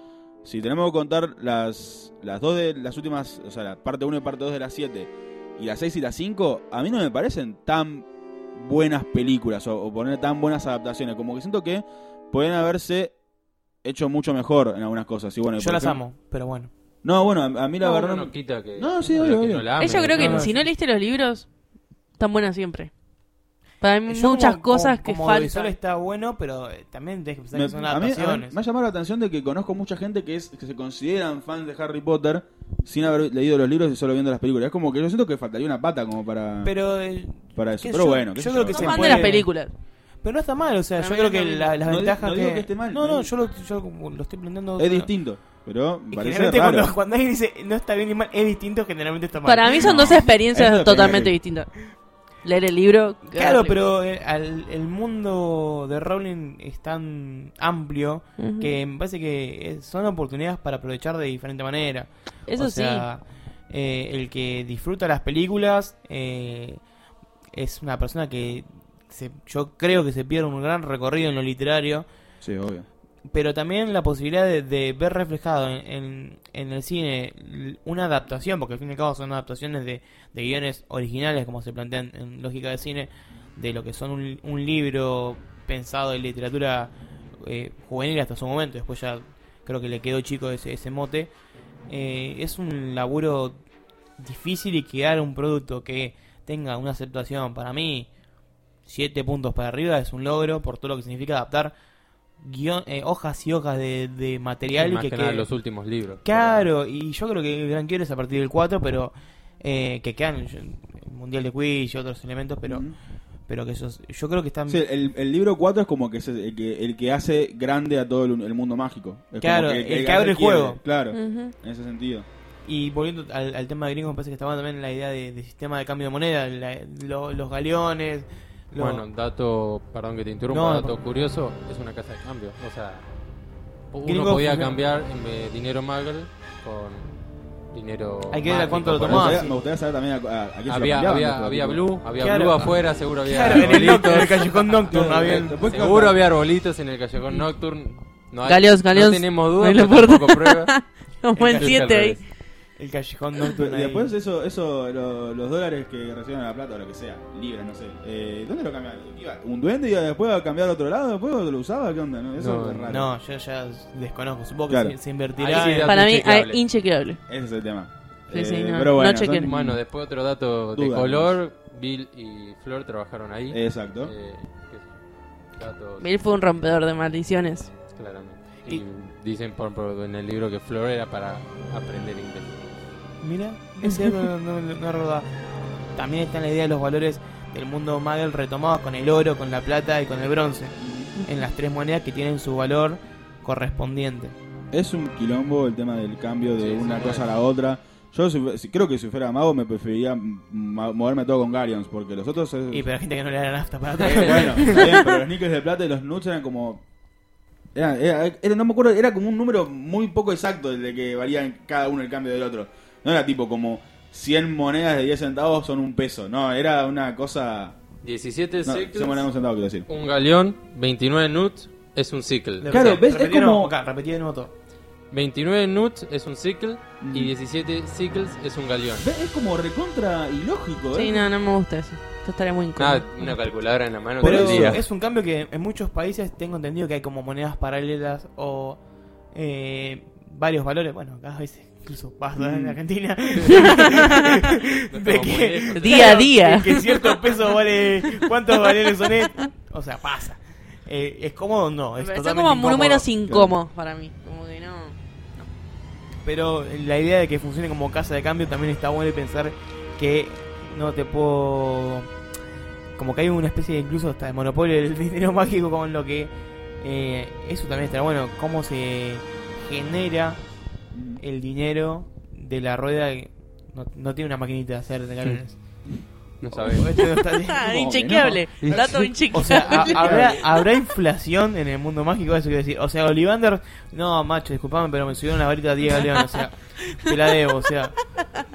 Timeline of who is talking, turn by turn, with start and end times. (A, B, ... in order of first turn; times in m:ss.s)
0:00.4-0:13.1 A
0:13.8-0:16.0 A
0:15.6-0:16.7 B
0:17.0-0:19.7 A
0:17.8-0:20.4 C
0:19.8-0:21.5 D
0:20.1-0:20.7 B
0:22.2-0:22.9 D
0:23.8-0:25.7 D
0:24.1-0:28.6 B
0:27.5-0:36.7 A
0:36.6-0:39.5 B
0:37.5-0:39.3 A
0:38.7-0:39.7 D
0:40.2-0:45.1 B
0:41.0-0:41.7 D
0:41.8-0:43.3 A
0:44.8-0:46.9 A
0:46.1-0:49.8 B
0:49.4-0:53.8 D
0:49.8-0:51.3 A
0:53.3-1:06.8 B
0:58.4-0:58.7 D
1:02.5-1:03.0 D
1:07.5-1:12.0 B
1:12.4-1:12.8 A
1:13.3-1:31.3 B
1:31.9-1:33.6 B
1:34.2-1:38.1 B
1:38.8-1:41.7 B
1:42.4-1:45.5 B
1:44.7-1:46.7 C
1:46.2-1:52.8 B
1:52.6-1:53.0 A
1:53.5-1:54.8 B
1:54.7-2:02.2 A
1:59.4-2:00.8 B
2:01.1-2:01.5 D
2:02.6-2:09.0 B
2:08.8-2:13.0 C
2:10.5-2:10.9 B
2:13.9-2:17.2 C
2:14.0-2:14.8 B
2:17.7-2:19.4 C
2:18.3-2:19.6 B
2:19.0-2:21.8 A
2:20.7-2:30.7 C
2:22.2-2:25.6 B
2:23.5-2:23.8 A
2:24.9-2:26.2 A
2:28.4-2:32.2 D
2:31.4-2:31.9 B
2:31.5-2:32.2 C
2:32.8-2:34.1 B
2:33.5-2:43.1 A
2:42.4-2:42.9 C
2:42.9-2:46.0 B
2:44.7-2:44.9 A
2:45.4-2:46.6 C
2:45.8-2:47.2 D
2:47.3-2:49.8 A
2:48.3-2:49.5 D
2:49.4-2:54.9 C
2:50.7-2:51.4 A
2:53.5-2:54.1 A
2:55.6-2:56.1 C
2:56.0-2:57.7 D
2:57.9-3:02.5 C
3:03.2-3:05.3 B
3:03.8-3:04.1 D
3:05.9-3:14.3 B
3:10.8-3:11.1 A
3:14.7-3:22.9 A
3:16.5-3:17.3 C
3:22.7-3:24.8 B
3:24.0-3:26.8 A
3:24.1-3:24.5 C
3:24.7-3:25.0 D
3:27.7-3:37.8 A
3:38.0-3:39.3 C
3:38.6-3:39.9 A
3:39.9-3:43.0 C
3:42.6-3:44.5 B
3:42.7-3:43.7 A
3:45.1-3:49.0 C
3:47.0-3:47.3 A
3:49.0-3:51.3 A
3:50.9-3:53.5 D
3:52.8-3:54.8 C
3:54.2-3:54.8 A
3:54.2-3:58.8 B
3:59.3-4:13.1 B
4:02.4-4:02.8 A
4:03.4-4:06.2 C
4:03.7-4:04.3 D
4:05.7-4:07.2 D
4:12.0-4:15.5 D
4:13.2-4:13.5 A
4:16.2-4:22.1 B
4:23.0-4:30.4 B
4:30.9-4:31.2 A
4:31.2-4:35.6 B
4:36.4-4:36.9 C
4:36.5-4:37.6 B
4:37.2-4:40.1 D
4:37.6-4:39.0 A
4:38.6-4:40.3 C
4:39.3-4:48.0 B
4:39.8-4:40.4 A